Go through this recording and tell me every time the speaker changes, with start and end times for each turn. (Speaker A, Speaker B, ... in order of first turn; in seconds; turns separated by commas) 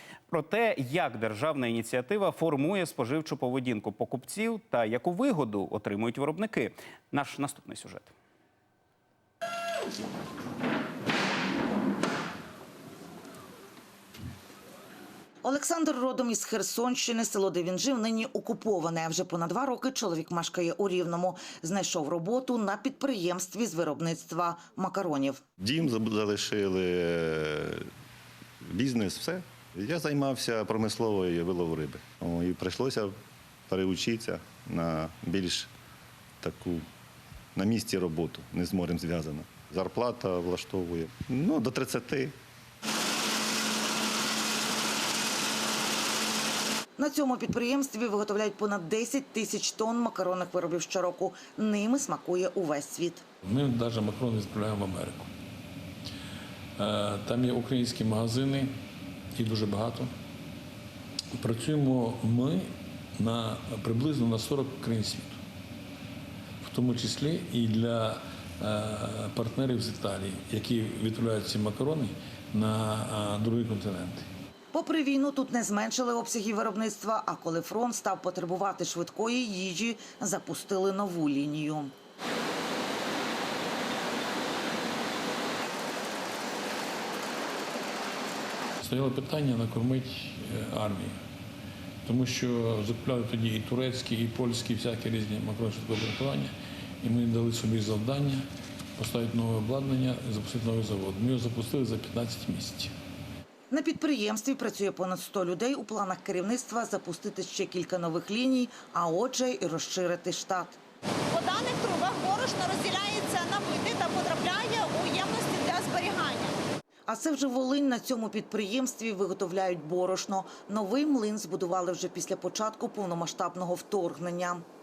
Speaker A: 0.3-8.1, Speaker B: 15.4-25.4, Speaker C: 25.6-27.9, Speaker C: 28.6-35.7, Speaker C: 36.4-36.9, Speaker C: 37.5-42.4, Speaker B: 47.0-53.2, Speaker D: 53.5-55.3, Speaker D: 56.8-58.7, Speaker D: 59.4-60.1, Speaker D: 61.4-65.4, Speaker D: 66.6-74.3, Speaker B: 74.7-81.9, Speaker D: 88.8-91.2, Speaker D: 92.0-98.4, Speaker D: 99.0-102.9, Speaker B: 103.7-110.8, Speaker E: 111.3-116.5, Speaker B: 117.1-124.6